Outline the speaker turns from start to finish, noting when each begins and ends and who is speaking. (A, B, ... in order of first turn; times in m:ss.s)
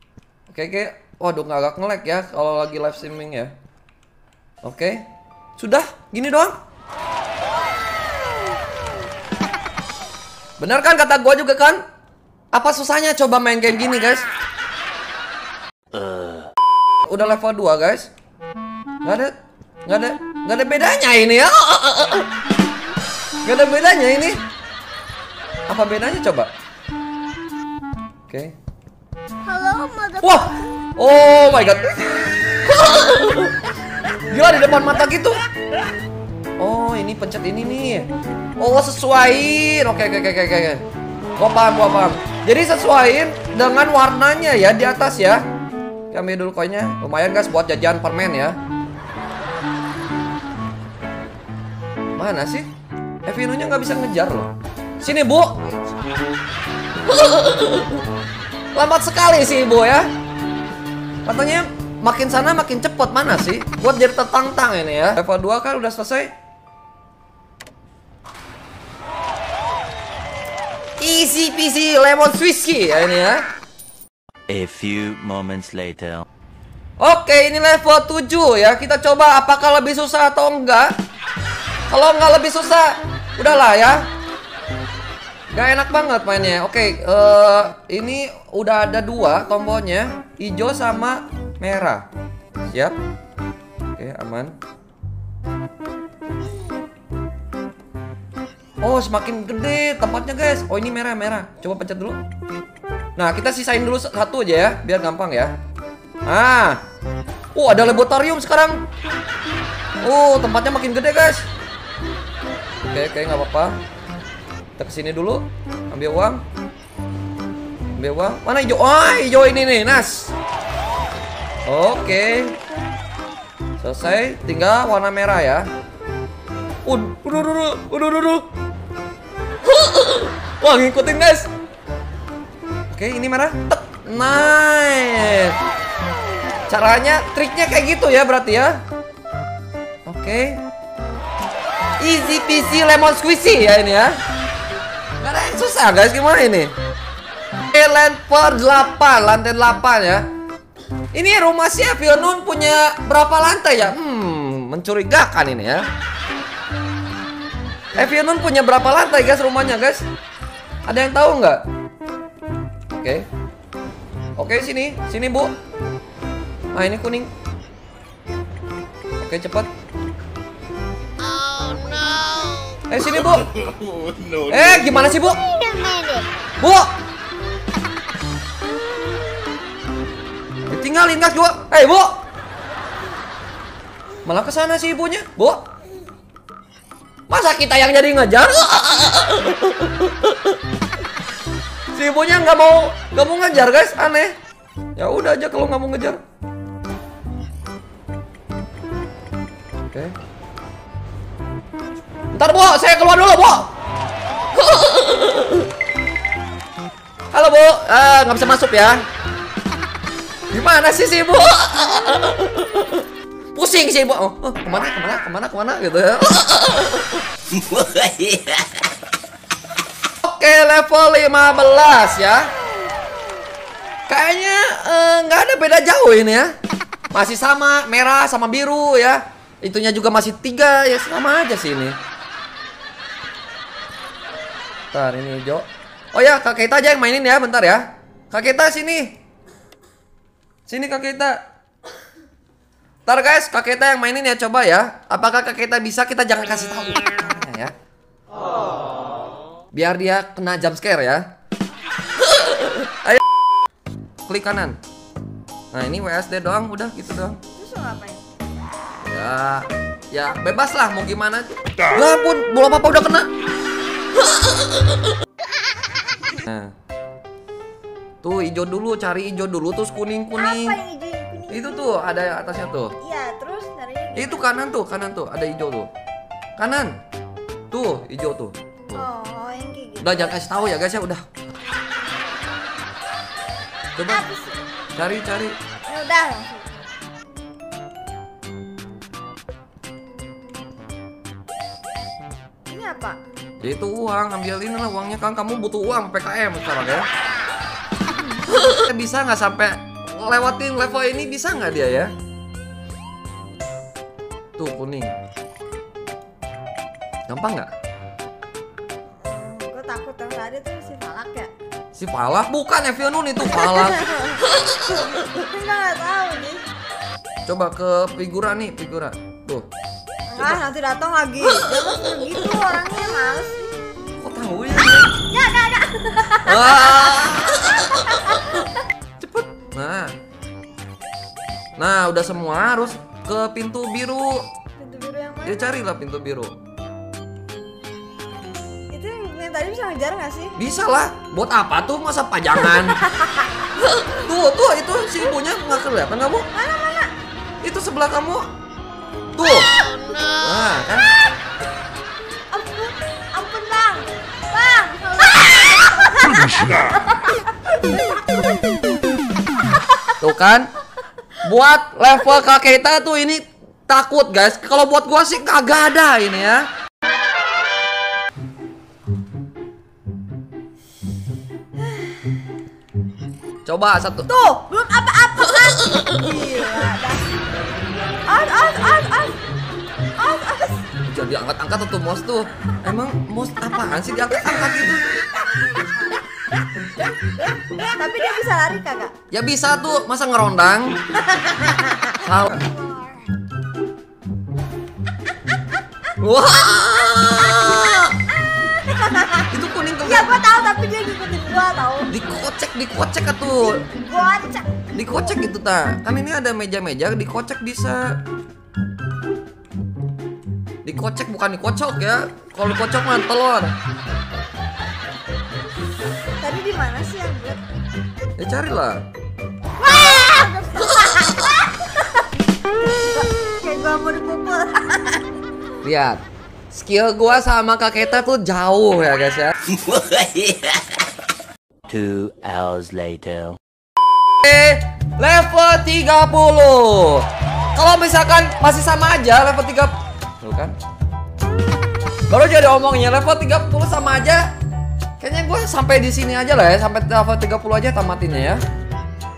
0:00.5-0:03.5 A
0:04.6-0:05.0 A
0:05.6-0:06.6 A
0:10.6-0:11.8 A
0:12.5-0:14.3 A
0:15.9-0:16.5 B
0:17.0-0:18.1 A
0:19.0-0:19.3 A
0:19.9-0:22.3 A
0:23.4-0:24.4 A
0:25.7-0:26.5 A
0:28.3-0:28.6 A
0:29.5-0:30.2 C
0:30.2-0:33.6 A
0:34.3-0:35.4 A
0:36.6-0:38.1 A
0:38.6-0:40.8 A
0:41.4-0:45.4 A
0:46.1-0:48.6 A
0:52.2-0:52.7 A
0:53.3-0:55.6 A
0:57.0-0:58.0 A
0:58.7-1:00.1 A
1:01.2-1:06.3 A
1:11.0-1:13.4 A
1:14.5-1:16.3 B
1:17.0-1:20.9 A
1:21.9-1:24.0 A
1:25.5-1:32.0 A
1:34.0-1:34.6 A
1:38.8-1:42.2 A
1:43.2-1:45.5 A
1:46.3-1:46.8 A
1:47.5-1:48.8 A
1:50.0-1:51.5 A
1:52.8-1:53.8 A
1:54.8-1:56.4 A
1:58.0-2:00.4 A
2:01.7-2:02.6 A
2:03.8-2:05.7 A
2:06.8-2:08.5 A
2:09.6-2:11.5 A
2:12.9-2:15.6 A
2:16.7-2:18.8 A
2:20.1-2:20.6 A
2:22.0-2:24.2 A
2:25.2-2:26.8 A
2:27.7-2:30.3 A
2:31.1-2:35.9 A
2:38.0-2:40.1 A
2:40.9-2:41.6 A
2:42.9-2:43.3 A
2:44.4-2:45.5 A
2:46.7-2:47.3 A
2:49.2-2:49.7 A
2:52.9-2:53.5 A
2:54.5-2:55.4 A
2:56.6-2:56.9 A
3:00.7-3:02.1 A
3:04.2-3:05.6 A
3:07.3-3:10.6 A
3:11.9-3:14.4 A
3:15.0-3:16.2 A
3:19.9-3:20.2 A
3:22.3-3:23.7 A
3:24.5-3:25.7 A
3:27.3-3:29.0 A
3:30.5-3:37.2 A
3:37.6-3:38.6 B
3:40.2-3:42.5 A
3:44.1-3:46.5 A
3:47.1-3:52.0 A
3:54.9-3:59.2 A
4:00.7-4:01.4 A
4:03.1-4:07.7 A
4:09.7-4:11.2 A
4:12.2-4:13.2 A
4:14.3-4:14.8 A
4:15.7-4:17.4 A
4:17.6-4:18.2 C
4:19.0-4:23.3 A
4:24.3-4:24.7 A
4:26.3-4:26.7 A
4:28.2-4:30.8 A
4:30.4-4:32.3 C
4:31.5-4:32.9 A
4:33.0-4:34.5 C
4:34.2-4:35.9 A
4:36.6-4:36.9 A
4:37.7-4:39.0 A
4:38.9-4:40.4 C
4:40.0-4:41.2 A
4:44.0-4:44.2 A
4:44.0-4:44.6 C
4:45.0-4:45.6 A
4:45.9-4:46.7 C
4:52.7-4:53.2 C
4:53.6-4:57.1 A
4:58.5-5:02.1 A
5:04.6-5:05.1 A
5:07.3-5:07.7 A
5:09.2-5:11.5 C
5:12.0-5:15.2 A
5:13.4-5:16.6 C
5:17.5-5:19.7 A
5:20.3-5:23.6 C
5:21.5-5:21.9 A
5:24.2-5:25.2 A
5:25.3-5:28.6 C
5:26.4-5:28.7 A
5:29.2-5:30.1 A
5:31.8-5:34.4 A
5:34.8-5:35.8 C
5:35.5-5:36.6 A
5:38.9-5:40.5 C
5:40.6-5:43.0 A
5:42.7-5:43.6 C
5:43.8-5:46.5 A
5:46.5-5:47.1 C
5:47.6-5:48.5 A
5:49.4-5:49.7 A
5:50.4-5:51.1 A
5:52.5-5:58.0 C
6:00.2-6:00.7 A
6:01.4-6:06.7 A
6:11.8-6:12.4 C
6:13.6-6:14.3 A
6:14.3-6:17.2 C
6:18.3-6:19.4 C
6:20.2-6:20.8 C
6:21.0-6:25.0 A
6:27.9-6:29.1 C
6:29.3-6:31.0 A
6:31.3-6:32.2 C
6:32.1-6:32.7 A
6:36.2-6:38.2 A
6:38.9-6:39.5 C
6:39.5-6:40.3 A
6:40.0-6:42.1 C
6:42.1-6:43.8 A
6:43.6-6:45.3 C
6:44.9-6:48.2 A
6:50.8-6:53.8 A
6:56.4-6:57.6 C
6:58.4-6:59.0 A
6:59.8-7:02.2 C
7:01.1-7:01.5 A
7:02.8-7:05.2 C
7:05.8-7:09.5 A
7:09.8-7:10.7 B
7:11.9-7:13.6 B
7:14.4-7:20.8 A
7:22.3-7:24.4 A
7:25.2-7:28.6 A